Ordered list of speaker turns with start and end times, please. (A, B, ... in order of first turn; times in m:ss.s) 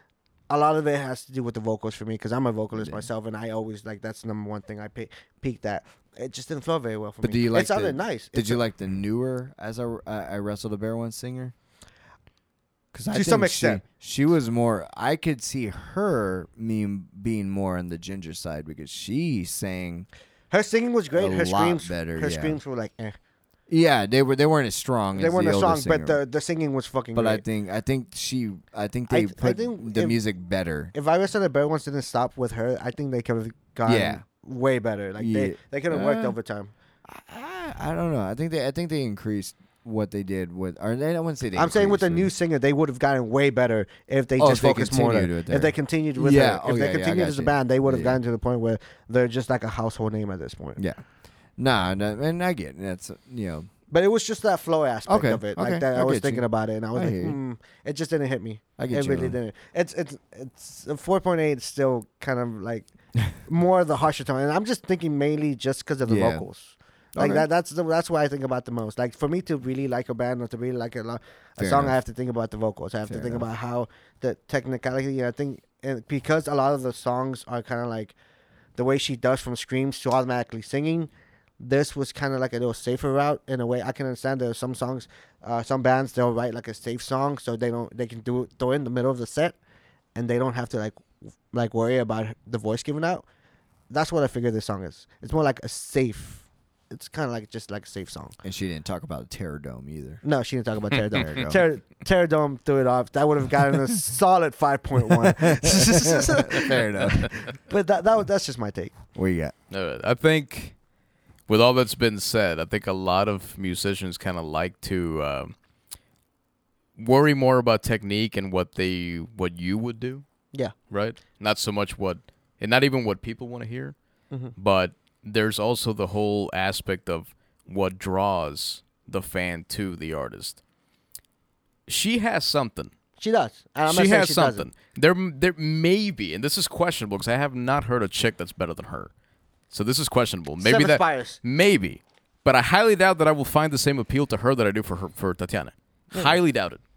0:00.5-0:08.6 A
0:02.8-0:03.0 B
0:07.2-0:11.5 B
0:12.9-0:20.1 B
0:13.1-0:13.8 A
0:20.5-0:23.2 A
0:21.1-0:22.6 B
0:23.7-0:26.2 B
0:25.1-0:27.4 A
0:27.1-0:30.9 B
0:29.1-0:30.2 A
0:30.9-0:36.7 A
0:33.8-0:34.2 B
0:35.2-0:36.4 B
0:37.1-0:42.3 B
0:41.6-0:50.8 A
0:44.4-0:48.2 B
0:50.8-0:51.0 B
0:51.6-0:53.7 B
0:53.9-1:18.1 A
0:55.1-0:57.4 B
0:58.8-0:59.4 B
1:06.0-1:06.4 B
1:07.1-1:07.5 B
1:11.6-1:12.0 B
1:13.0-1:13.4 B
1:18.8-1:29.6 A
1:30.1-1:33.2 A
1:33.9-1:38.4 A
1:38.4-1:40.2 B
1:40.2-1:48.9 A
1:41.1-1:41.6 B
1:45.5-1:47.3 B
1:49.1-1:49.5 B
1:49.7-1:50.7 C
1:51.5-1:55.5 C
1:57.0-2:00.2 C
2:00.9-2:03.9 C
2:04.5-2:10.6 C
2:11.9-2:12.9 C
2:13.2-2:14.7 A
2:13.8-2:19.1 C
2:19.7-2:26.8 C
2:20.6-2:21.4 A
2:26.1-2:26.4 A